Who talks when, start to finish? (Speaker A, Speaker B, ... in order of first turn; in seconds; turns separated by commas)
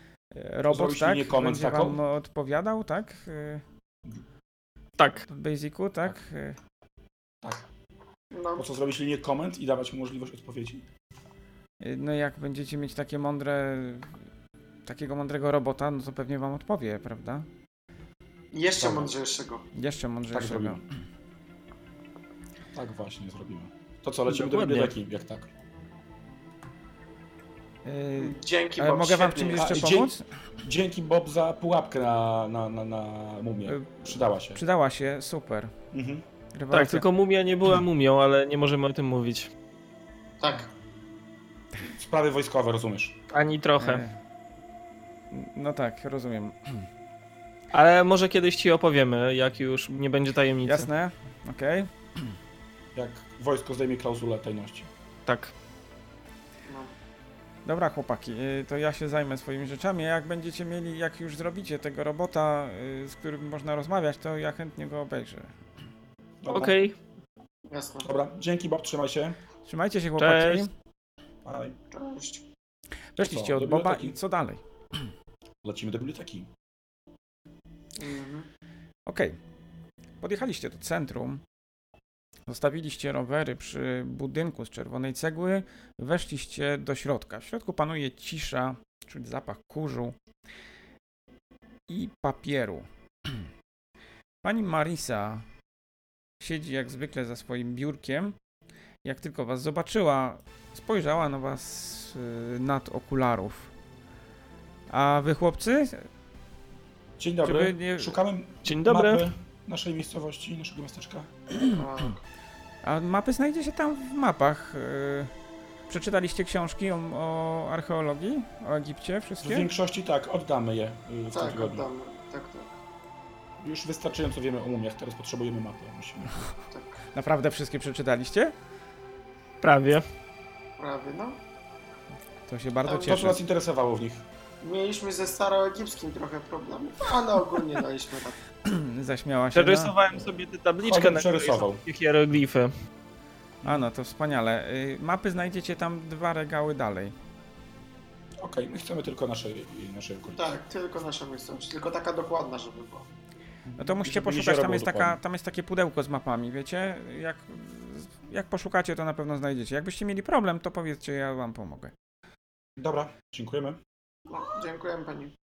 Speaker A: 0.3-3.6, Speaker B: 0.7-2.0, Speaker C: 5.0-5.2, Speaker A: 5.3-6.6, Speaker B: 7.4-7.7, Speaker D: 8.3-8.6, Speaker B: 8.6-10.8, Speaker A: 11.8-14.1, Speaker A: 14.8-17.5, Speaker D: 18.5-19.6, Speaker B: 18.8-19.1, Speaker A: 19.7-20.8, Speaker B: 20.3-20.8, Speaker B: 22.7-25.5, Speaker C: 24.3-24.9, Speaker A: 27.8-30.2, Speaker D: 28.2-29.7, Speaker B: 29.5-34.6, Speaker A: 33.7-35.8, Speaker B: 35.9-36.2, Speaker A: 36.5-37.1, Speaker C: 36.7-39.5, Speaker D: 40.4-40.7, Speaker B: 41.8-43.2, Speaker C: 43.3-44.0, Speaker A: 43.8-44.2, Speaker A: 45.3-46.9, Speaker C: 47.7-50.9, Speaker A: 50.6-52.3, Speaker B: 52.9-54.9, Speaker C: 55.3-55.5, Speaker D: 56.6-56.9, Speaker A: 57.6-65.5, Speaker B: 66.4-66.8, Speaker C: 66.5-66.9, Speaker D: 67.7-68.1, Speaker B: 68.0-69.4, Speaker A: 69.7-70.7, Speaker C: 70.2-70.6, Speaker B: 71.4-71.8, Speaker D: 71.9-72.4, Speaker A: 73.2-75.1, Speaker B: 73.2-74.2, Speaker B: 75.6-76.5, Speaker D: 78.0-78.5, Speaker A: 79.0-79.4, Speaker A: 80.2-81.4, Speaker A: 82.5-90.2, Speaker A: 91.9-93.5, Speaker A: 94.4-95.4, Speaker A: 96.4-98.3, Speaker A: 99.0-103.7, Speaker A: 104.9-106.1, Speaker B: 107.2-111.3, Speaker A: 107.4-108.2, Speaker C: 108.6-109.2, Speaker D: 111.6-112.2, Speaker A: 112.8-115.3, Speaker A: 115.9-119.7, Speaker B: 119.4-121.8, Speaker D: 121.3-122.7, Speaker B: 123.6-126.5, Speaker D: 126.7-127.0, Speaker A: 127.1-128.5, Speaker C: 129.6-130.0, Speaker D: 130.8-131.4, Speaker A: 132.5-133.4, Speaker D: 132.8-133.2, Speaker B: 133.0-134.2, Speaker D: 134.6-138.4, Speaker A: 138.6-139.9, Speaker C: 139.5-142.7, Speaker B: 140.8-141.8, Speaker A: 143.6-147.1, Speaker B: 148.4-150.5, Speaker D: 150.3-153.1, Speaker B: 153.7-155.2, Speaker A: 153.8-161.9, Speaker B: 162.8-163.8, Speaker D: 164.3-165.3